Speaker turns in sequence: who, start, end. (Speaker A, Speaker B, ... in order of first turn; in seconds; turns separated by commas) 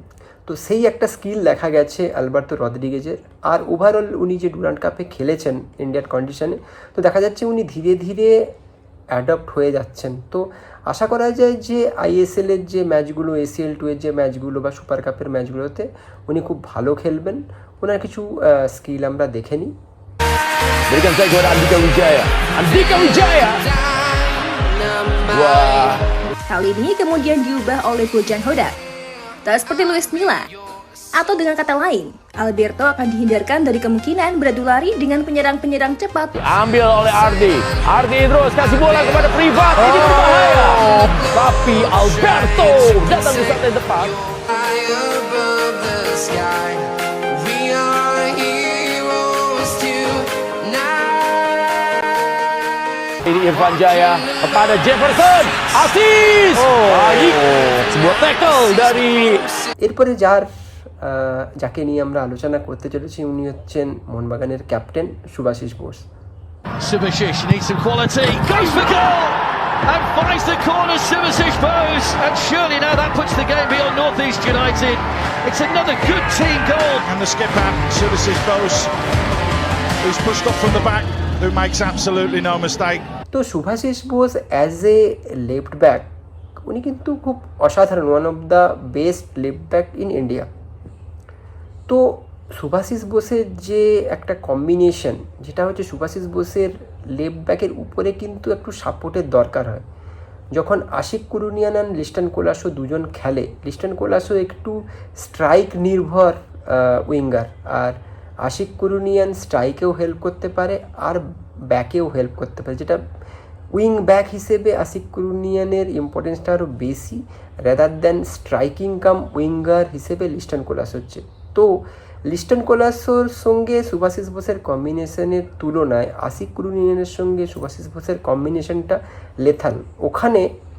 Speaker A: 0.5-8.3, Speaker A: 9.1-19.7, Speaker B: 20.9-23.6, Speaker B: 25.3-26.0, Speaker C: 26.5-28.7, Speaker C: 29.4-30.5, Speaker C: 31.1-36.3, Speaker B: 36.4-44.1, Speaker B: 53.2-59.5, Speaker A: 59.8-66.1, Speaker D: 66.8-77.0, Speaker E: 77.0-78.9, Speaker E: 80.0-83.0, Speaker A: 83.3-86.1, Speaker A: 86.6-90.5, Speaker A: 91.9-99.8, Speaker A: 100.5-113.0, Speaker A: 113.7-130.5